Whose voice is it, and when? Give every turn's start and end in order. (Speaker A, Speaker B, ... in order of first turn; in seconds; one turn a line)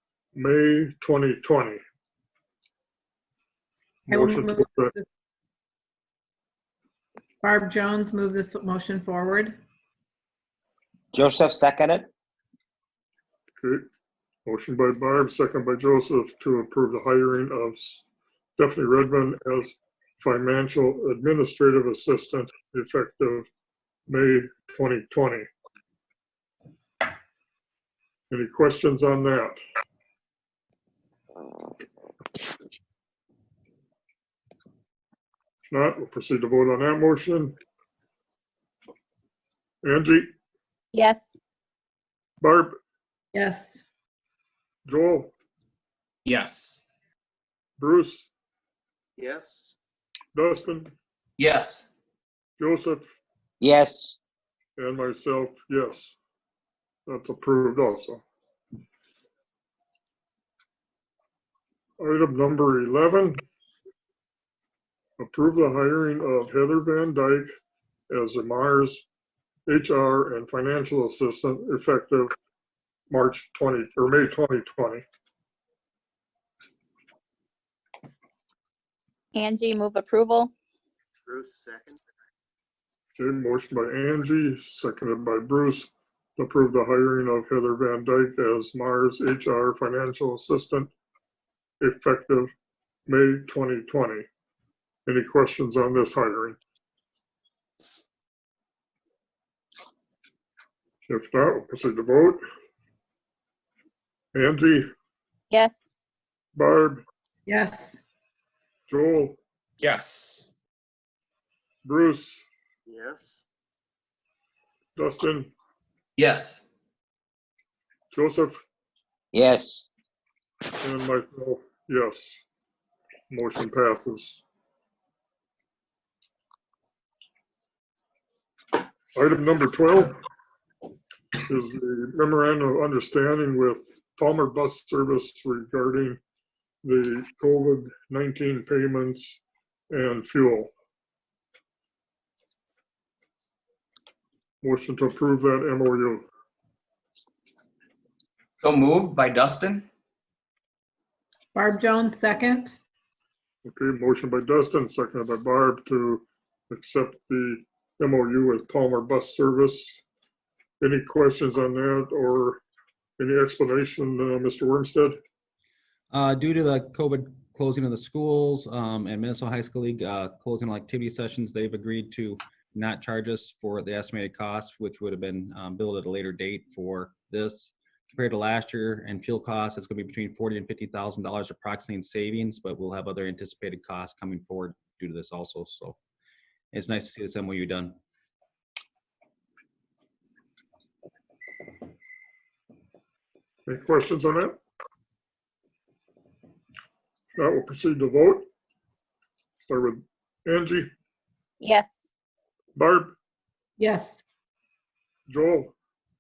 Speaker A: 0.3-1.8
Speaker B: 4.1-5.0
Speaker A: 4.1-4.9
Speaker B: 7.4-9.6
Speaker C: 11.1-12.1
Speaker A: 13.6-13.9
Speaker A: 14.4-18.0
Speaker A: 18.6-23.5
Speaker A: 24.1-25.5
Speaker A: 28.3-29.6
Speaker A: 35.6-37.5
Speaker A: 39.8-40.3
Speaker D: 40.9-41.4
Speaker A: 42.4-42.8
Speaker B: 43.3-43.8
Speaker A: 44.8-45.3
Speaker E: 46.2-46.8
Speaker A: 47.8-48.3
Speaker F: 49.2-49.8
Speaker A: 50.3-50.9
Speaker E: 51.4-51.9
Speaker A: 52.6-53.1
Speaker C: 53.6-54.1
Speaker A: 54.8-56.1
Speaker A: 57.0-58.2
Speaker A: 62.0-63.4
Speaker A: 65.2-67.5
Speaker A: 68.1-69.0
Speaker A: 69.7-72.3
Speaker A: 73.1-75.0
Speaker D: 79.3-80.5
Speaker F: 81.2-82.1
Speaker A: 83.2-90.9
Speaker A: 91.8-92.5
Speaker A: 93.1-94.3
Speaker A: 95.0-96.6
Speaker A: 101.1-102.4
Speaker A: 104.3-104.9
Speaker D: 105.5-105.8
Speaker A: 106.5-107.0
Speaker B: 107.5-108.0
Speaker A: 108.9-109.4
Speaker E: 109.8-110.5
Speaker A: 111.8-112.4
Speaker F: 112.8-113.4
Speaker A: 115.0-115.5
Speaker E: 116.2-116.6
Speaker A: 118.1-118.6
Speaker C: 119.3-119.9
Speaker A: 120.8-122.4
Speaker A: 123.3-124.4
Speaker A: 129.1-130.1
Speaker A: 131.4-136.2
Speaker A: 136.8-140.7
Speaker A: 144.6-146.3
Speaker E: 148.6-149.9
Speaker B: 151.5-152.8
Speaker A: 153.6-160.0
Speaker A: 160.8-162.6
Speaker A: 163.2-165.2
Speaker G: 166.1-186.0
Speaker G: 186.7-187.9
Speaker A: 193.7-194.6
Speaker A: 197.3-198.5
Speaker A: 199.7-200.9
Speaker D: 201.6-202.0
Speaker A: 202.7-203.1
Speaker B: 203.8-204.2
Speaker A: 205.3-205.7